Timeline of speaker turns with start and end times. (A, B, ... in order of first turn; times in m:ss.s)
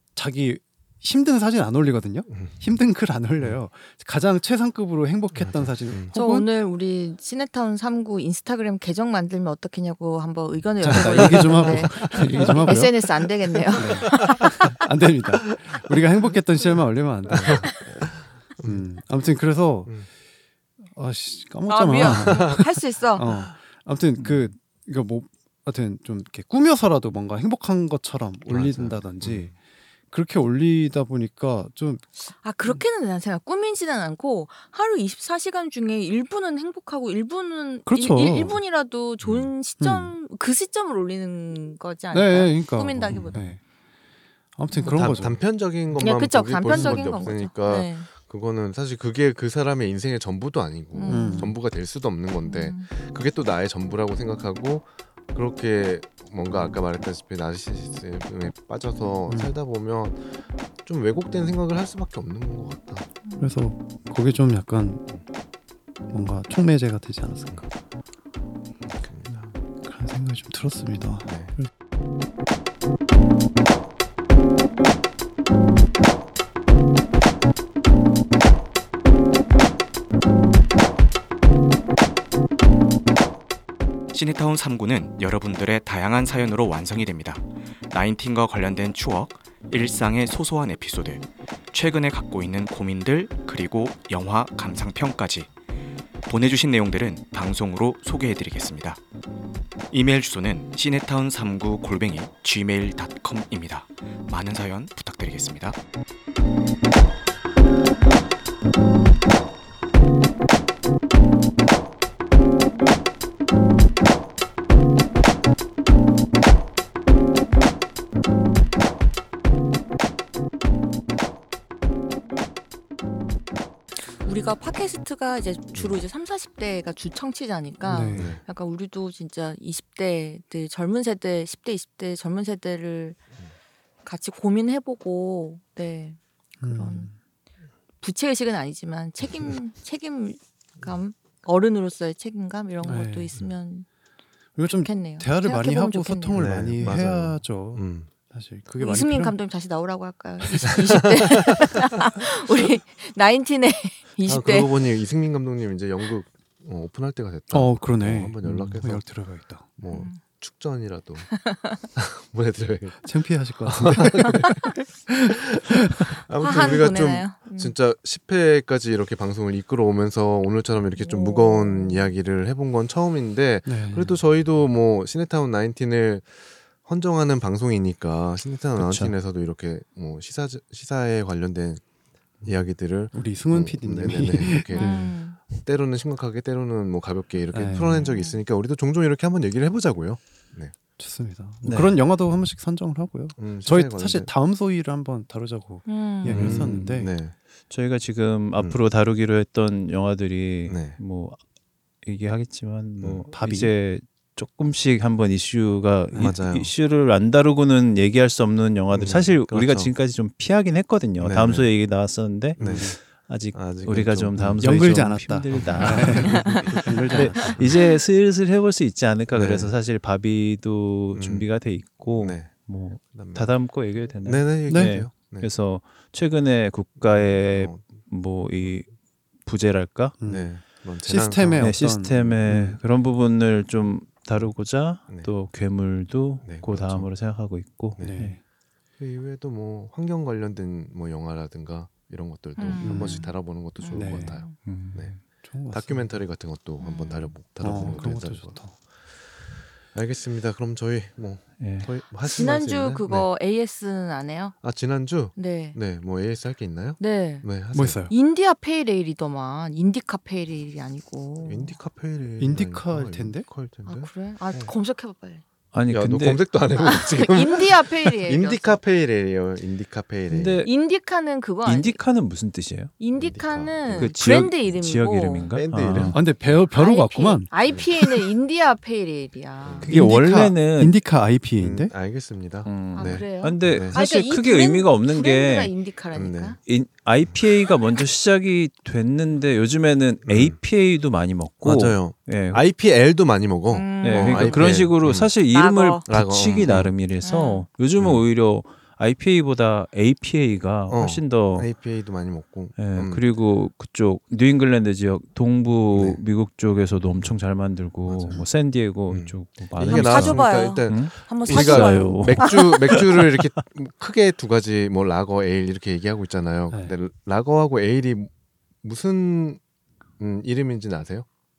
0:00.2-0:06.5 A
0:05.3-0:06.1 B
0:06.1-0:14.6 C
0:10.8-0:13.0 A
0:11.0-0:12.7 B
0:13.7-0:18.1 A
0:14.1-0:14.5 B
0:17.3-0:17.8 B
0:18.6-0:20.0 A
0:20.9-0:29.5 A
0:21.7-0:23.2 C
0:22.0-0:22.6 B
0:28.5-0:29.5 B
0:30.1-0:32.0 A
0:32.4-0:43.5 C
0:37.8-0:38.6 A
0:39.2-0:39.5 B
0:39.8-0:40.1 A
0:42.1-0:43.6 A
0:44.6-0:45.4 A
0:44.7-0:45.2 C
0:44.8-1:00.3 B
0:46.0-0:48.1 C
0:46.7-0:47.2 A
0:50.9-0:51.6 C
0:51.1-0:51.6 A
0:52.4-0:52.9 C
0:59.3-0:59.5 A
1:00.8-1:03.0 B
1:03.2-1:03.5 C
1:03.4-1:05.0 A
1:06.1-1:07.6 A
1:09.0-1:09.5 B
1:09.3-1:11.7 A
1:11.3-1:11.5 B
1:24.1-1:35.5 D
1:36.2-1:39.0 D
1:39.9-1:45.8 D
2:04.1-2:13.2 C
2:07.9-2:08.4 A
2:08.1-2:08.4 B
2:14.0-2:17.1 C
2:16.6-2:17.2 A
2:18.0-2:23.8 C
2:22.8-2:23.4 A
2:24.6-2:29.4 A
2:24.6-2:26.6 C
2:26.3-2:28.1 B
2:28.8-2:34.7 C
2:30.4-2:30.7 A
2:30.8-2:31.7 B
2:34.2-2:39.0 B
2:37.5-2:39.7 A
2:38.4-2:38.7 E
2:39.8-2:41.3 B
2:39.9-2:40.2 C
2:41.3-2:41.8 C
2:41.9-2:43.0 B
2:43.0-2:46.0 A
2:43.6-2:44.8 B
2:45.3-3:01.8 B
2:46.4-2:47.7 C
2:51.0-2:52.1 C
2:53.6-2:54.2 A
2:58.8-2:59.1 E
3:02.4-3:10.7 B
3:03.1-3:05.2 A
3:04.7-3:05.4 C
3:07.5-3:08.0 A
3:08.0-3:08.4 C
3:11.0-3:17.1 A
3:11.6-3:12.0 E
3:13.4-3:14.3 B
3:15.8-3:16.4 C
3:16.3-3:17.3 B
3:16.3-3:17.0 E
3:17.7-3:21.4 E
3:20.7-3:21.0 B
3:22.0-3:48.9 E
3:23.3-3:23.7 A
3:26.1-3:26.7 B
3:28.9-3:29.9 B
3:31.2-3:31.7 B
3:32.6-3:32.9 B
3:32.6-3:33.0 A
3:33.5-3:34.7 B
3:34.6-3:37.6 A
3:35.5-3:36.7 B
3:36.3-3:36.8 C
3:37.4-3:37.8 B
3:39.3-3:39.7 B
3:41.1-3:41.4 B
3:42.1-3:42.5 B
3:43.1-3:43.5 B
3:44.2-3:45.5 B
3:44.7-3:45.0 A
3:47.0-3:47.9 B
3:49.4-3:50.2 E
3:50.2-3:50.5 A
3:50.3-3:52.3 B
3:51.0-3:52.8 A
3:51.6-3:58.4 E
3:56.4-3:57.1 B
3:58.0-3:58.4 A
3:59.0-4:05.1 B
4:02.6-4:04.6 C
4:02.8-4:03.2 A
4:03.9-4:04.4 A
4:04.6-4:05.2 E
4:05.4-4:06.2 A
4:05.7-4:08.8 B
4:06.8-4:07.3 C
4:07.6-4:08.7 A
4:09.9-4:13.3 B
4:11.6-4:11.9 E
4:12.2-4:14.6 C
4:14.6-4:18.0 B
4:15.4-4:15.8 C
4:17.0-4:17.5 C
4:17.7-4:18.1 A
4:18.1-4:21.7 C
4:21.4-4:24.7 B
4:22.4-4:23.5 A
4:23.8-4:25.4 C
4:25.7-4:26.4 E
4:25.9-4:30.7 B
4:26.8-4:28.8 C
4:30.3-4:30.7 E
4:30.6-4:32.0 C
4:31.6-4:32.9 E
4:33.0-4:35.5 C
4:33.2-4:34.1 B
4:33.9-4:36.2 E
4:35.5-4:36.2 B
4:36.1-4:38.2 A
4:36.7-4:39.9 C
4:39.6-4:39.9 B
4:39.8-4:41.0 E
4:39.9-4:41.9 A
4:41.6-4:44.0 B
4:42.6-4:45.7 E
4:42.9-4:46.6 C
4:46.1-4:46.6 B
4:46.6-4:52.6 E
4:50.3-4:50.6 B
4:51.6-4:55.3 B
4:53.7-4:54.9 C
4:54.0-5:01.7 E
4:55.5-4:56.0 C
4:56.1-4:56.9 B
4:56.6-4:57.6 C
4:58.0-4:58.2 B
5:00.9-5:03.2 B
5:02.8-5:13.4 E
5:05.9-5:06.2 B
5:08.1-5:08.4 B
5:09.1-5:18.3 B
5:09.8-5:13.0 C
5:18.8-5:19.6 B
5:20.2-5:21.3 B